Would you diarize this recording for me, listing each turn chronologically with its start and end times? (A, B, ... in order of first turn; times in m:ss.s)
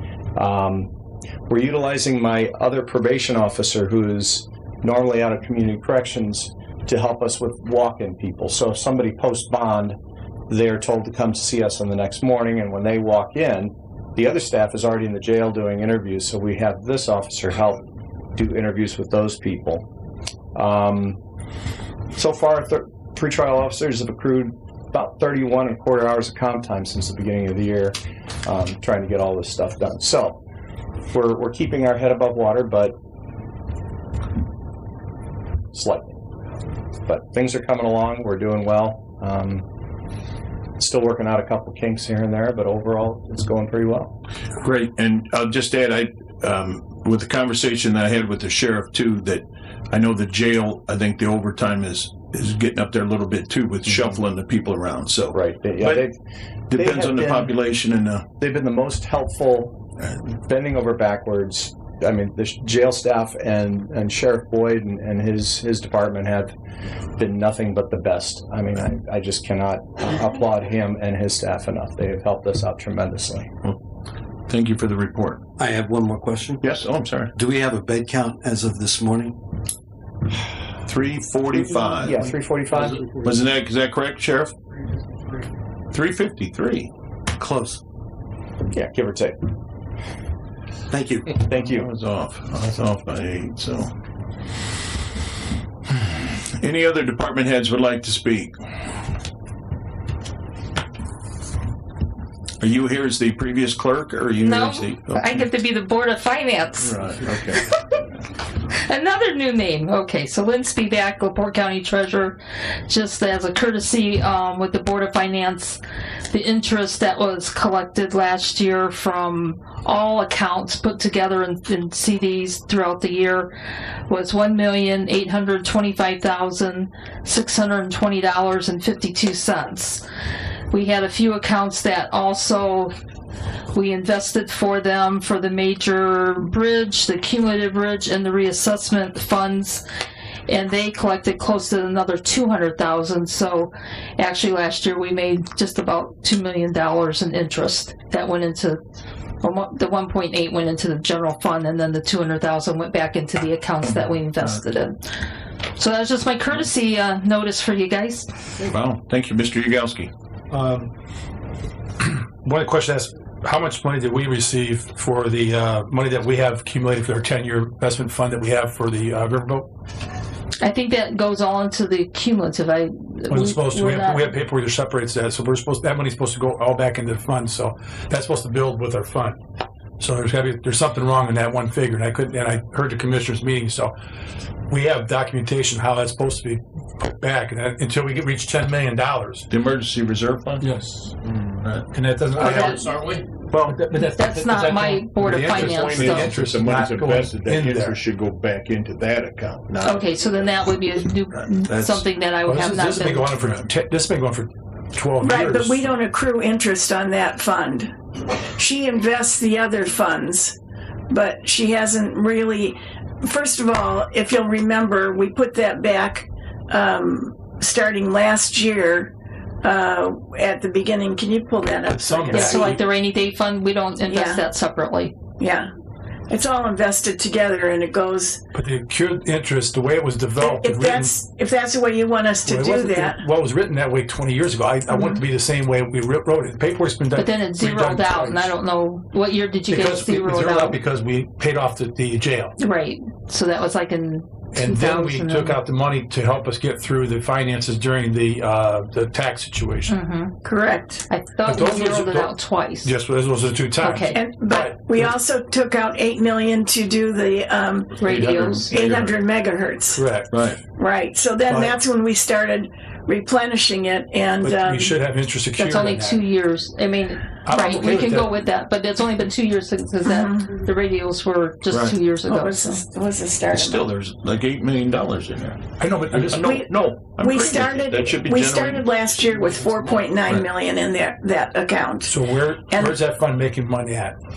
0:00.4-0:00.9 A
0:01.5-0:10.0 A
0:10.5-0:17.8 A
0:18.4-0:19.9 A
0:20.6-0:21.2 A
0:22.2-0:30.4 A
0:31.1-0:33.0 A
0:35.7-0:36.2 A
0:37.1-0:39.6 A
0:40.8-0:44.1 A
0:44.6-0:56.1 B
0:53.9-0:54.2 A
0:55.3-0:56.2 A
0:56.7-0:58.2 B
0:56.7-0:57.6 A
0:58.4-1:06.5 A
1:07.2-1:13.5 A
1:14.5-1:15.5 B
1:15.6-1:16.6 C
1:16.6-1:17.3 B
1:17.4-1:19.3 C
1:20.8-1:22.3 B
1:21.7-1:23.1 A
1:23.0-1:24.6 B
1:25.9-1:26.9 B
1:27.4-1:27.8 C
1:28.7-1:29.4 A
1:30.9-1:31.3 C
1:31.4-1:31.9 A
1:31.5-1:33.9 B
1:35.9-1:38.8 B
1:42.6-1:45.5 B
1:44.4-1:47.0 D
1:46.8-1:47.7 B
1:47.7-1:48.1 D
1:48.7-2:03.5 D
2:04.1-2:10.0 D
2:10.7-2:12.9 D
2:13.7-2:19.8 D
2:20.5-2:28.8 D
2:29.4-2:35.1 D
2:34.1-2:34.5 B
2:35.8-2:38.3 D
2:38.6-2:40.1 B
2:40.5-2:40.9 E
2:42.0-2:49.7 E
2:50.6-2:54.3 D
2:53.3-2:59.4 E
3:00.0-3:03.9 E
3:04.7-3:09.5 E
3:09.5-3:10.6 B
3:10.6-3:11.1 E
3:11.2-3:13.1 B
3:11.9-3:13.0 E
3:13.5-3:18.0 E
3:14.0-3:16.3 D
3:15.2-3:20.5 B
3:19.8-3:23.5 D
3:22.4-3:25.8 E
3:25.2-3:27.9 F
3:28.5-3:30.6 F
3:31.1-3:39.1 F
3:39.6-3:42.8 F
3:41.9-3:42.8 E
3:42.3-3:45.1 D
3:44.1-3:44.4 F
3:45.4-3:45.7 F
3:46.3-3:48.4 F
3:48.5-3:51.1 E
3:50.4-3:53.2 F
3:52.5-3:58.5 E
3:57.2-4:00.8 D
3:59.7-4:02.5 E
4:02.6-4:05.6 D
4:04.5-4:10.0 E
4:09.9-4:10.4 D
4:10.4-4:11.0 F
4:11.1-4:12.9 D
4:11.4-4:15.1 E
4:13.8-4:14.2 D
4:14.1-4:18.0 F
4:18.0-4:18.7 D
4:18.0-4:19.1 B
4:18.7-4:20.0 F
4:20.0-4:20.5 E
4:20.8-4:24.9 F
4:21.5-4:21.8 E
4:24.4-4:26.2 E
4:25.6-4:32.8 D
4:27.4-4:28.4 E
4:27.5-4:27.8 F
4:30.0-4:30.5 F
4:31.7-4:32.0 B
4:32.3-4:33.8 F
4:33.5-4:38.9 B
4:35.8-4:36.5 E
4:36.4-4:42.2 F
4:42.1-4:44.2 E
4:42.7-4:43.0 F